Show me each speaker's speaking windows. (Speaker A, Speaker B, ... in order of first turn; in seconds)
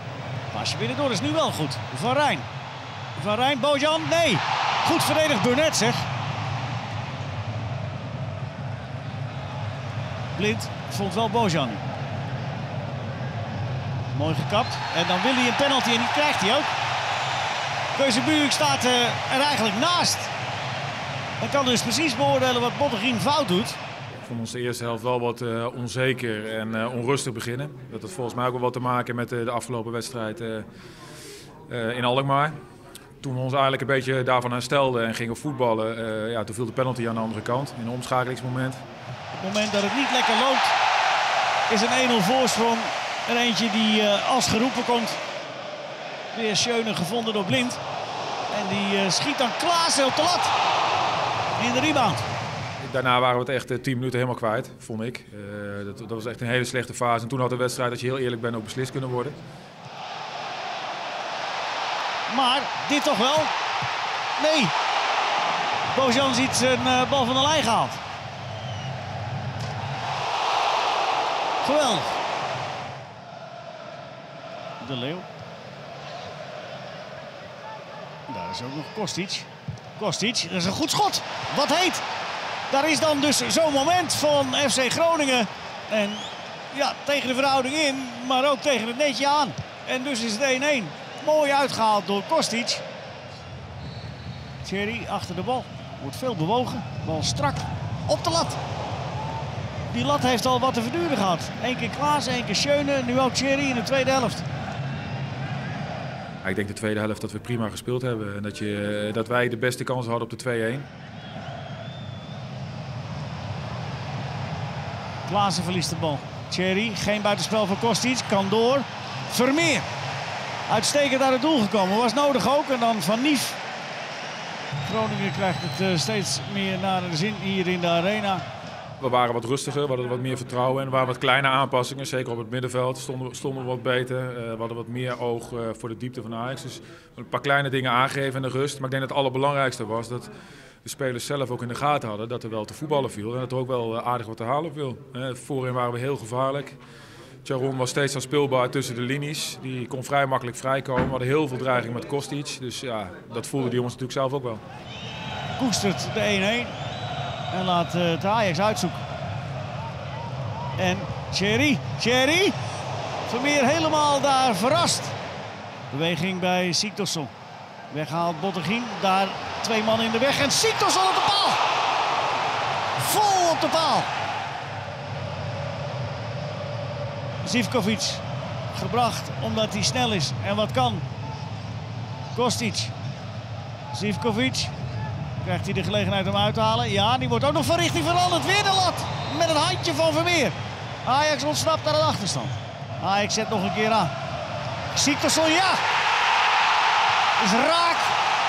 Speaker A: 0.5-2.5, 3.1-6.0, 10.3-11.8, 14.1-16.7, 17.9-20.3, 21.4-23.8, 39.3-40.7, 41.7-45.2, 46.3-47.8, 48.5-50.5, 51.6-52.2, 62.3-63.5, 64.4-64.7, 65.9-68.0, 71.6-72.2, 74.8-75.3, 78.3-82.0, 82.7-92.8, 94.6-98.6, 99.9-104.5, 115.2-119.9, 120.7-123.6, 124.8-128.4, 155.6-156.7, 157.5-159.0, 160.8-162.6, 163.3-165.2, 165.9-167.3, 167.9-171.6, 173.0-174.1, 177.4-181.0, 182.3-182.9, 183.9-184.7, 185.4-194.1, 194.9-195.8, 197.4-198.2
Speaker B: 24.2-30.7, 31.7-32.5, 33.2-38.8, 52.8-59.4, 106.4-110.9, 129.0-140.3, 140.8-146.8, 147.4-154.6